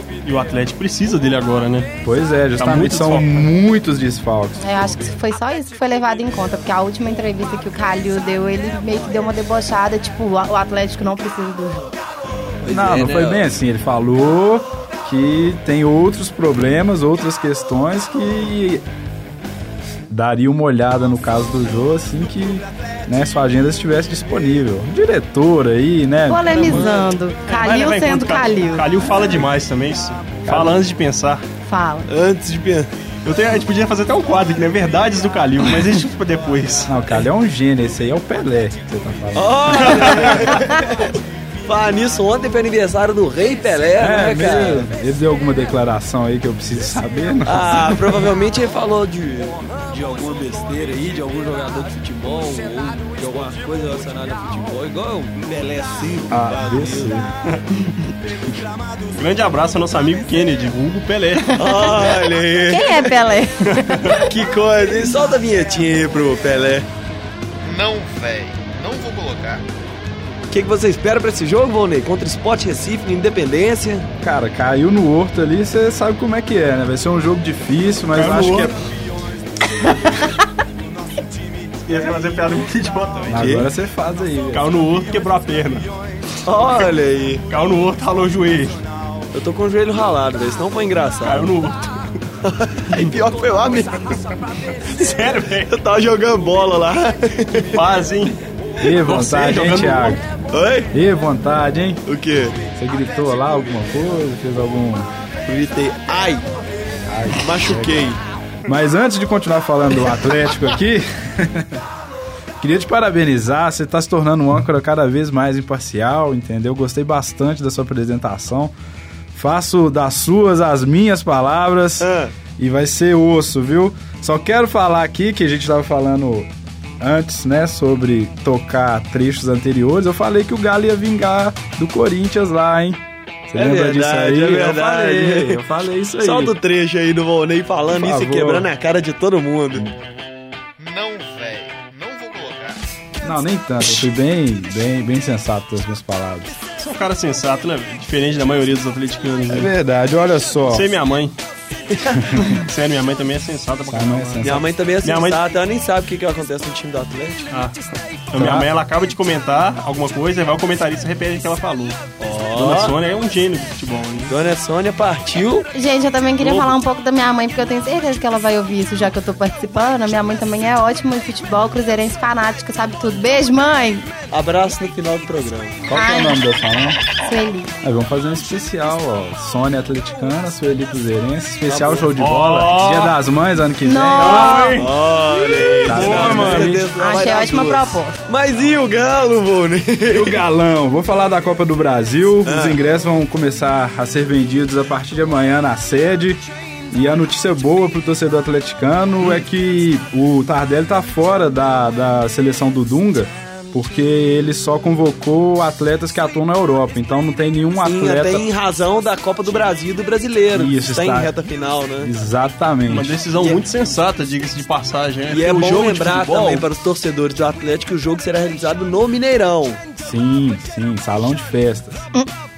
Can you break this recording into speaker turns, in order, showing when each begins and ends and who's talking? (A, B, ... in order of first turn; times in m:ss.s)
0:00.2-0:01.9 A
0:02.0-0:05.1 B
0:02.6-0:03.5 A
0:04.6-0:12.0 C
0:12.6-0:13.4 D
0:12.7-0:18.8 B
0:20.1-0:26.9 B
0:26.3-0:29.1 C
0:26.6-0:27.0 D
0:27.5-0:31.4 A
0:30.5-0:30.9 B
0:31.6-0:32.1 C
0:32.1-0:32.9 D
0:33.2-0:36.9 A
0:36.9-0:40.6 B
0:39.4-0:44.9 D
0:39.9-0:40.3 A
0:44.0-0:48.2 B
0:47.5-0:57.3 D
0:56.3-0:57.3 B
0:59.1-1:01.9 A
1:01.6-1:03.1 D
1:02.7-1:04.3 C
1:03.7-1:04.1 A
1:04.1-1:06.9 D
1:07.6-1:09.6 E
1:10.5-1:14.1 D
1:14.2-1:18.8 B
1:18.1-1:18.8 A
1:21.8-1:23.7 A
1:23.3-1:24.7 B
1:23.4-1:23.7 D
1:24.5-1:25.9 A
1:26.4-1:27.4 D
1:27.5-1:28.8 A
1:29.3-1:31.5 D
1:31.2-1:32.1 A
1:32.4-1:34.2 D
1:34.9-1:35.7 A
1:35.7-1:37.7 D
1:37.7-1:38.4 A
1:38.8-1:40.2 B
1:39.0-1:40.2 A
1:40.5-1:40.9 D
1:40.9-1:42.0 B
1:42.1-1:42.6 D
1:42.8-1:45.1 B
1:45.4-1:46.5 D
1:47.1-1:48.1 B
1:47.4-1:48.2 D
1:48.7-1:51.8 B
1:52.6-1:58.7 B
1:59.3-2:06.5 B
2:02.0-2:02.3 D
2:07.0-2:16.6 B
2:13.6-2:15.6 D
2:16.2-2:19.9 D
2:17.9-2:18.7 B
2:20.8-2:22.8 E
2:23.2-2:26.6 B
2:26.8-2:29.7 A
2:29.5-2:30.9 B
2:30.7-2:31.4 A
2:31.9-2:32.3 D
2:32.4-2:34.4 A
2:33.9-2:34.7 B
2:34.4-2:37.4 D
2:35.0-2:35.4 A
2:37.5-2:37.8 A
2:38.3-2:42.0 A
2:38.4-2:38.7 B
2:42.2-2:43.0 D
2:42.6-2:44.3 A
2:44.3-2:45.7 D
2:45.7-2:54.1 C
2:46.4-2:46.7 D
2:54.3-2:55.8 D
2:55.9-2:57.0 B
2:55.9-2:56.4 C
2:57.2-2:57.7 C
2:57.8-3:04.8 B
3:01.7-3:02.1 D
3:02.2-3:03.1 A
3:03.8-3:04.8 C
3:04.2-3:06.8 A
3:04.8-3:10.4 D
3:05.8-3:06.9 B
3:06.9-3:08.2 C
3:10.1-3:28.5 B
3:12.4-3:12.8 D
3:27.8-3:32.1 D
3:30.5-3:31.3 B
3:32.0-3:33.2 B
3:32.9-3:36.6 A
3:33.4-3:33.6 D
3:35.3-3:39.8 D
3:40.0-3:42.1 B